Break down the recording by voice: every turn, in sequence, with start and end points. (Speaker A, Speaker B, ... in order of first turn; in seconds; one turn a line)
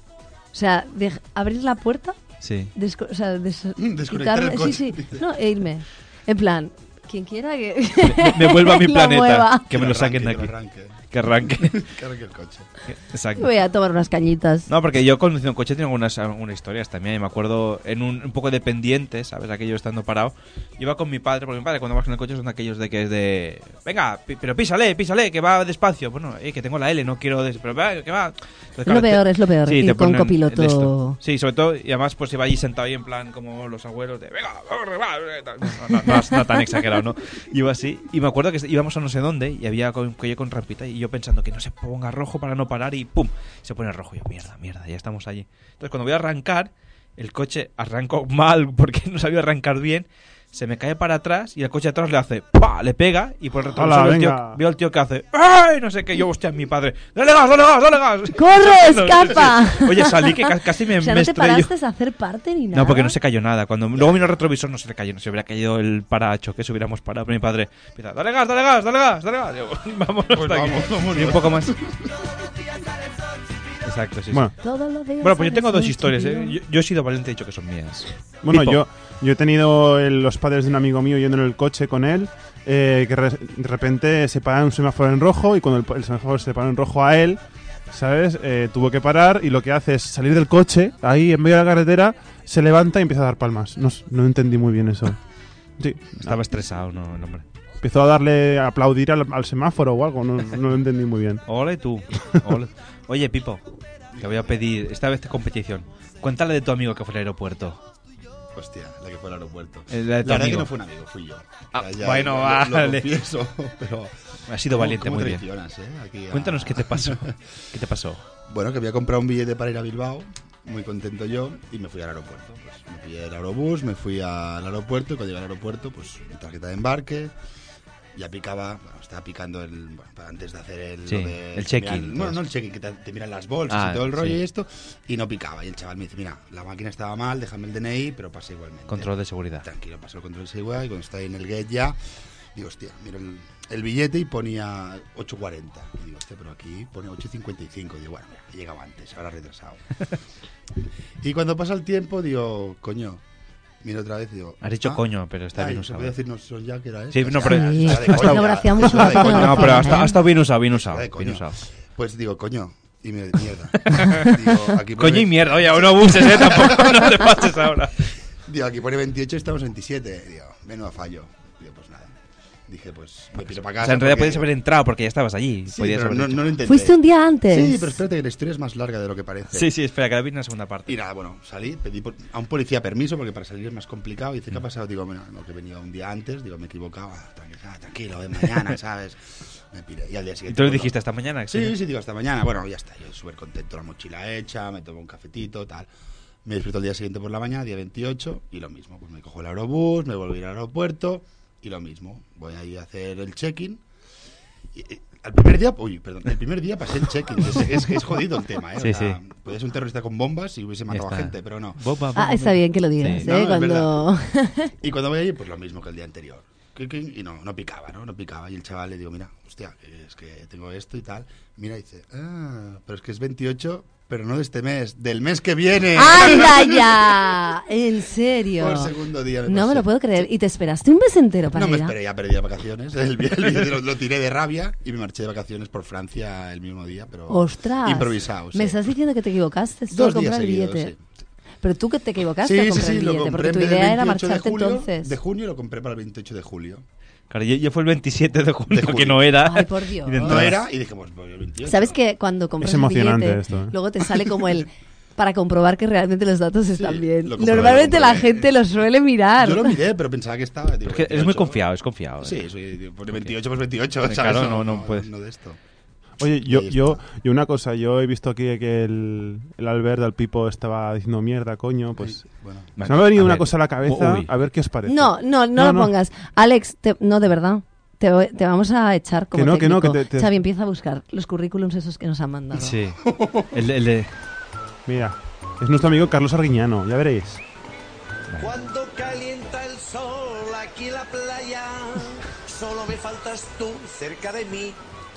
Speaker A: 0.5-2.2
Speaker B: 2.4-2.7
Speaker A: 2.8-9.7
Speaker C: 3.8-5.2
Speaker B: 8.0-10.5
Speaker C: 9.7-10.9
Speaker B: 11.1-11.8
Speaker C: 11.6-12.7
Speaker B: 12.9-13.5
Speaker A: 13.4-14.7
Speaker B: 14.7-61.7
Speaker A: 28.9-31.2
Speaker D: 53.7-54.6
Speaker A: 58.4-63.2
Speaker B: 62.7-71.8
Speaker C: 70.3-72.1
Speaker B: 73.8-74.5
Speaker A: 74.6-76.6
Speaker B: 75.2-78.8
Speaker D: 78.4-87.4
Speaker D: 87.9-95.2
Speaker D: 95.8-96.4
Speaker B: 96.2-97.4
Speaker D: 97.8-101.4
Speaker B: 101.5-103.6
Speaker C: 104.2-104.5
Speaker B: 104.2-107.8
Speaker C: 108.6-114.1
Speaker B: 109.9-110.7
Speaker B: 111.8-113.1
Speaker B: 114.5-115.4
Speaker C: 114.7-117.3
Speaker B: 116.3-118.2
Speaker C: 118.5-127.3
Speaker C: 128.2-139.1
Speaker B: 131.1-132.4
Speaker B: 133.7-134.4
Speaker B: 138.9-139.7
Speaker C: 139.6-142.0
Speaker C: 142.6-149.8
Speaker C: 151.2-153.2
Speaker C: 153.8-155.0
Speaker B: 154.6-156.2
Speaker C: 155.6-167.4
Speaker B: 157.1-161.6
Speaker A: 157.4-160.1
Speaker B: 163.9-167.9
Speaker C: 168.5-172.1
Speaker C: 172.7-174.5
Speaker B: 173.5-176.5
Speaker C: 175.7-179.7
Speaker A: 176.7-177.9
Speaker B: 179.5-180.9
Speaker C: 180.9-190.9
Speaker B: 190.5-191.8
Speaker C: 191.5-195.9
Speaker C: 196.4-203.8
Speaker C: 204.7-211.8
Speaker B: 208.8-209.2
Speaker B: 210.9-213.3
Speaker A: 212.2-214.7
Speaker C: 213.2-214.0
Speaker C: 214.8-227.1
Speaker A: 225.9-228.9
Speaker C: 228.6-230.3
Speaker A: 229.5-231.9
Speaker C: 231.5-238.8
Speaker A: 237.3-240.9
Speaker C: 239.9-241.0
Speaker A: 241.6-245.1
Speaker C: 242.4-246.8
Speaker B: 247.3-250.6
Speaker C: 248.7-249.2
Speaker A: 249.4-250.4
Speaker C: 250.2-252.0
Speaker A: 251.7-259.7
Speaker D: 252.6-253.8
Speaker C: 256.8-258.6
Speaker C: 259.4-261.6
Speaker B: 260.9-262.5
Speaker C: 262.2-265.6
Speaker B: 264.0-265.1
Speaker D: 266.2-272.2
Speaker C: 266.5-267.0
Speaker C: 272.0-272.7
Speaker B: 272.8-274.3
Speaker D: 272.8-275.9
Speaker A: 274.9-282.8
Speaker D: 279.3-280.3
Speaker B: 282.6-283.0
Speaker C: 283.1-283.5
Speaker B: 283.5-284.1
Speaker D: 284.9-287.4
Speaker B: 288.3-288.6
Speaker E: 288.4-294.8